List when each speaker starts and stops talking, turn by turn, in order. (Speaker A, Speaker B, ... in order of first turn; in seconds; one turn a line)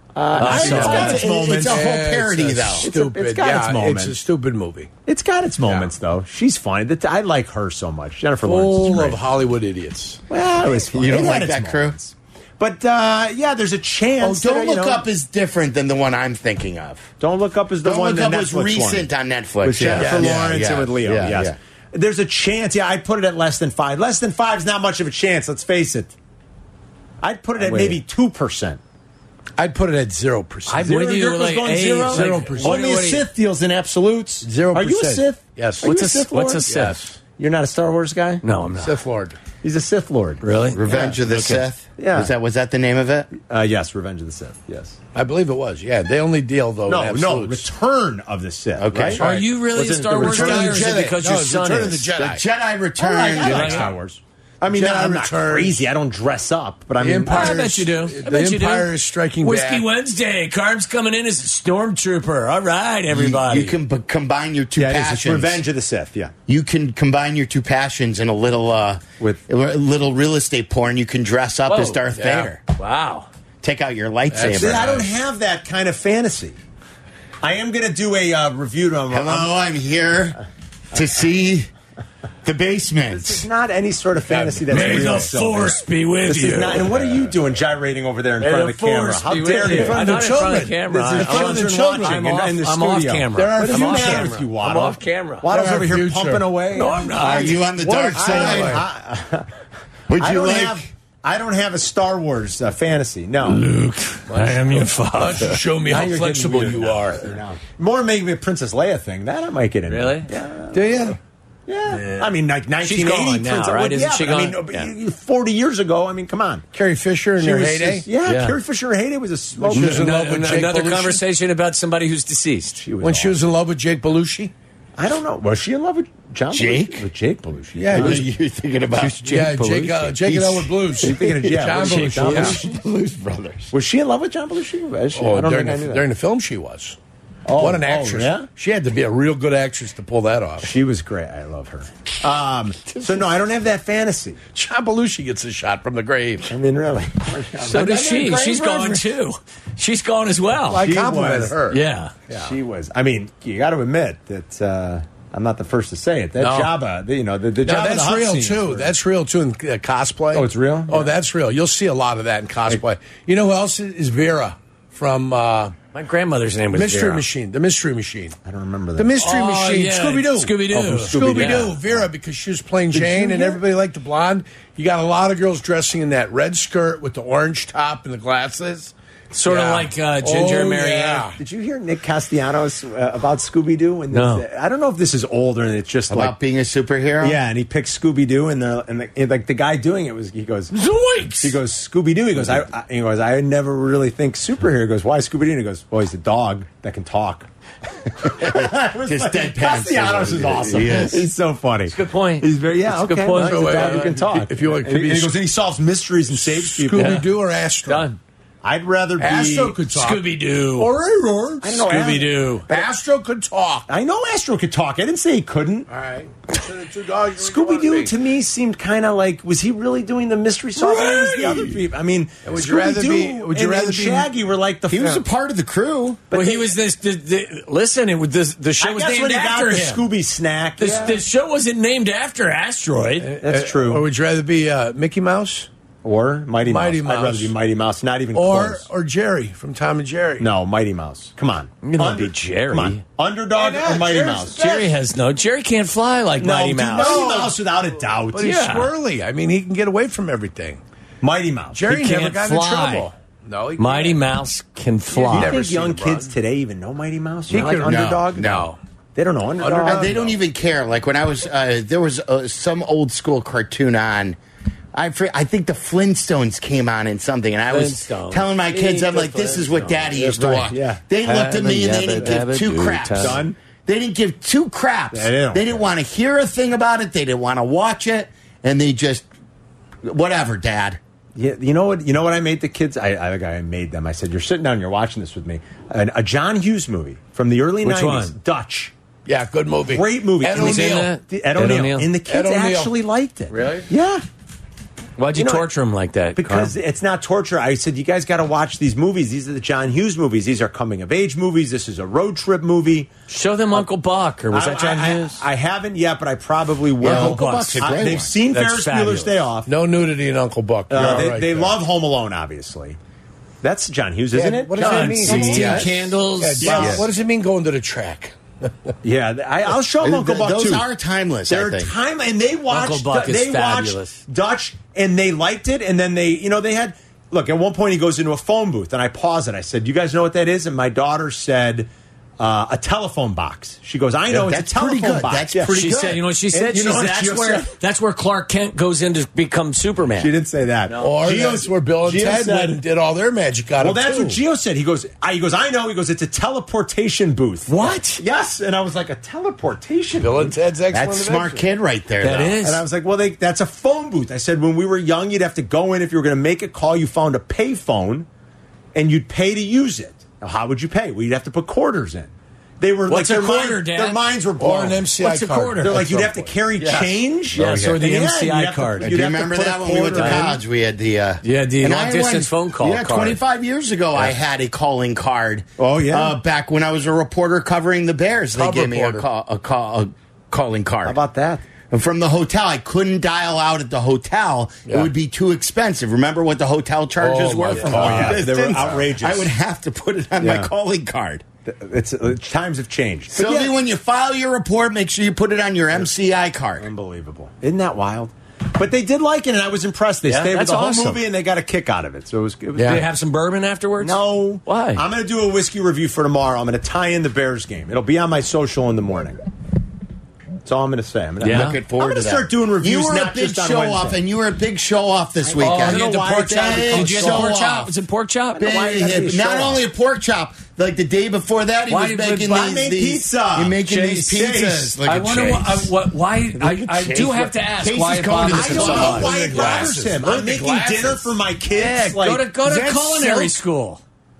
Speaker A: 0.1-1.9
Speaker B: 0.3-1.2
Speaker C: 0.4-4.9
Speaker D: 0.4-2.9
Speaker A: 2.8-4.2
Speaker A: 5.0-9.2
Speaker C: 5.6-5.9
Speaker C: 8.4-10.2
Speaker A: 10.3-15.0
Speaker D: 10.6-11.9
Speaker D: 14.2-17.1
Speaker A: 17.2-19.1
Speaker D: 17.8-21.6
Speaker A: 19.6-26.1
Speaker C: 19.9-20.5
Speaker A: 27.2-28.8
Speaker B: 27.6-28.0
Speaker C: 29.6-31.0
Speaker B: 30.7-33.2
Speaker A: 30.8-36.6
Speaker C: 32.1-32.8
Speaker C: 34.4-35.9
Speaker B: 35.8-37.0
Speaker C: 36.6-37.1
Speaker A: 37.3-38.4
Speaker B: 38.4-39.0
Speaker C: 38.8-39.4
Speaker A: 39.6-41.2
Speaker B: 40.4-41.6
Speaker D: 40.7-43.3
Speaker A: 42.0-42.3
Speaker A: 43.3-45.0
Speaker C: 45.1-47.7
Speaker A: 46.9-50.8
Speaker D: 48.8-49.2
Speaker C: 49.2-49.6
Speaker B: 49.2-52.1
Speaker C: 50.2-52.4
Speaker D: 50.6-51.2
Speaker D: 52.1-53.9
Speaker A: 53.0-57.7
Speaker C: 53.4-53.9
Speaker B: 53.4-53.9
Speaker C: 54.6-55.8
Speaker C: 57.0-59.8
Speaker B: 57.2-58.9
Speaker B: 59.4-63.8
Speaker D: 63.1-65.7
Speaker A: 64.8-66.3
Speaker D: 66.5-72.6
Speaker B: 71.7-72.0
Speaker C: 72.2-72.5
Speaker B: 72.8-73.3
Speaker D: 73.6-75.0
Speaker C: 74.3-75.1
Speaker A: 74.5-76.6
Speaker A: 77.4-79.5
Speaker D: 79.1-81.7
Speaker D: 82.4-83.5
Speaker A: 83.1-90.2
Speaker C: 84.3-85.4
Speaker B: 84.7-86.9
Speaker B: 88.4-95.5
Speaker C: 89.5-92.3
Speaker A: 90.9-99.5
Speaker C: 93.3-94.3
Speaker C: 95.5-97.0
Speaker B: 96.7-98.1
Speaker D: 97.1-98.8
Speaker C: 98.1-98.8
Speaker D: 100.1-100.9
Speaker A: 100.2-103.7
Speaker C: 103.5-107.3
Speaker B: 104.3-105.6
Speaker A: 105.8-111.0
Speaker B: 109.9-110.3
Speaker C: 110.7-111.2
Speaker A: 111.7-116.7
Speaker B: 111.9-114.9
Speaker C: 116.7-118.1
Speaker A: 117.4-120.1
Speaker B: 118.2-118.6
Speaker C: 119.6-121.2
Speaker B: 119.7-122.8
Speaker A: 122.8-123.3
Speaker C: 123.0-124.5
Speaker A: 125.0-128.2
Speaker D: 126.5-127.1
Speaker C: 127.8-128.2
Speaker D: 127.9-129.2
Speaker B: 128.9-130.2
Speaker C: 129.2-132.6
Speaker D: 130.2-131.6
Speaker A: 131.0-132.6
Speaker B: 131.8-132.6
Speaker D: 132.2-133.7
Speaker A: 133.7-136.0
Speaker C: 135.1-137.0
Speaker A: 137.4-138.5
Speaker C: 137.5-140.7
Speaker A: 140.6-144.4
Speaker C: 144.5-146.5
Speaker A: 146.5-148.9
Speaker B: 147.6-150.8
Speaker C: 150.7-152.5
Speaker A: 150.7-151.6
Speaker B: 151.7-152.1
Speaker A: 152.3-158.9
Speaker C: 156.4-156.8
Speaker C: 157.6-165.7
Speaker A: 160.3-161.1
Speaker B: 165.9-167.2
Speaker C: 166.7-168.4
Speaker A: 168.4-169.2
Speaker C: 169.0-178.9
Speaker B: 169.2-171.7
Speaker A: 170.7-172.1
Speaker A: 172.9-173.6
Speaker B: 179.3-181.3
Speaker C: 179.4-181.4
Speaker A: 181.4-186.3
Speaker B: 184.1-184.4
Speaker D: 186.1-187.4
Speaker A: 187.2-190.8
Speaker C: 190.7-191.6
Speaker A: 191.4-197.5
Speaker A: 198.2-207.2
Speaker D: 198.3-201.3
Speaker B: 201.9-204.2
Speaker C: 203.3-205.3
Speaker C: 206.4-208.1
Speaker B: 206.9-207.2
Speaker B: 207.8-208.2
Speaker A: 208.6-209.8
Speaker C: 209.2-212.0
Speaker B: 209.9-210.9
Speaker A: 211.6-212.9
Speaker B: 211.8-212.7
Speaker C: 212.7-213.9
Speaker A: 213.9-215.9
Speaker C: 215.9-218.1
Speaker A: 217.4-225.2
Speaker C: 220.8-221.8
Speaker C: 222.4-224.3
Speaker D: 224.9-226.2
Speaker A: 226.3-226.7
Speaker B: 226.3-230.1
Speaker A: 228.8-231.2
Speaker B: 230.8-233.3
Speaker C: 233.2-235.7
Speaker A: 233.4-234.0
Speaker A: 236.0-238.8
Speaker C: 236.6-237.5
Speaker C: 238.3-240.5
Speaker A: 240.4-244.9
Speaker B: 241.8-243.0
Speaker C: 243.5-244.8
Speaker B: 244.5-247.2
Speaker A: 246.4-248.7
Speaker C: 247.0-247.6
Speaker C: 248.3-250.8
Speaker B: 248.4-248.9
Speaker A: 251.2-251.8
Speaker C: 251.7-254.2
Speaker B: 251.8-253.1
Speaker B: 253.8-255.6
Speaker C: 255.1-256.3
Speaker A: 255.3-258.5
Speaker C: 257.5-258.8
Speaker B: 257.5-257.8
Speaker D: 257.8-258.7
Speaker A: 259.1-260.2
Speaker C: 259.6-260.4
Speaker D: 259.8-264.4
Speaker D: 264.9-279.3
Speaker B: 267.7-270.1
Speaker A: 270.0-272.4
Speaker B: 271.2-273.4
Speaker A: 273.2-273.6
Speaker A: 275.1-275.8
Speaker D: 280.0-281.0
Speaker A: 281.3-288.9
Speaker B: 287.8-288.4
Speaker C: 289.2-291.1
Speaker A: 289.9-294.2
Speaker B: 290.5-292.1
Speaker C: 292.3-292.9
Speaker B: 293.5-293.9
Speaker B: 295.2-296.7
Speaker A: 295.3-295.7
Speaker A: 296.4-303.1
Speaker B: 303.3-305.4
Speaker A: 304.5-309.7
Speaker D: 307.0-308.3
Speaker B: 307.0-309.4
Speaker C: 309.7-311.8
Speaker A: 310.9-313.0
Speaker A: 313.6-316.0
Speaker C: 314.3-318.3
Speaker B: 314.8-317.0
Speaker D: 315.4-315.9
Speaker A: 316.6-317.1
Speaker A: 319.0-320.8
Speaker D: 320.0-321.9
Speaker A: 321.5-335.8
Speaker B: 322.7-324.2
Speaker D: 334.3-336.2
Speaker B: 335.7-340.3
Speaker A: 336.5-337.7
Speaker A: 340.1-342.8
Speaker B: 340.9-341.1
Speaker C: 341.0-344.4
Speaker A: 343.8-350.6
Speaker B: 347.7-348.2
Speaker C: 350.2-351.7
Speaker D: 350.9-352.6
Speaker B: 352.2-352.8
Speaker A: 352.6-358.3
Speaker A: 358.9-365.1
Speaker B: 363.1-364.2
Speaker C: 364.6-366.5
Speaker B: 365.2-366.3
Speaker A: 365.8-370.6
Speaker B: 366.8-369.1
Speaker D: 369.0-381.2
Speaker B: 370.1-370.4
Speaker B: 371.4-373.4
Speaker A: 375.8-376.4
Speaker C: 378.5-379.2
Speaker A: 381.0-381.6
Speaker D: 381.9-391.4
Speaker C: 387.2-388.9
Speaker A: 387.7-389.5
Speaker A: 390.4-390.7
Speaker A: 391.6-393.7
Speaker D: 393.3-396.9
Speaker A: 396.8-403.0
Speaker B: 400.2-401.2
Speaker C: 402.8-403.0
Speaker B: 402.8-405.0
Speaker A: 404.0-409.4
Speaker A: 410.6-414.2
Speaker B: 411.4-411.8
Speaker D: 411.4-417.9
Speaker A: 415.4-417.5
Speaker B: 415.6-418.7
Speaker A: 418.5-419.8
Speaker D: 418.6-425.9
Speaker B: 421.9-422.8
Speaker A: 422.4-425.0
Speaker B: 425.0-429.4
Speaker D: 426.6-429.9
Speaker A: 428.4-432.5
Speaker C: 428.6-431.4
Speaker B: 431.7-434.0
Speaker C: 432.6-433.6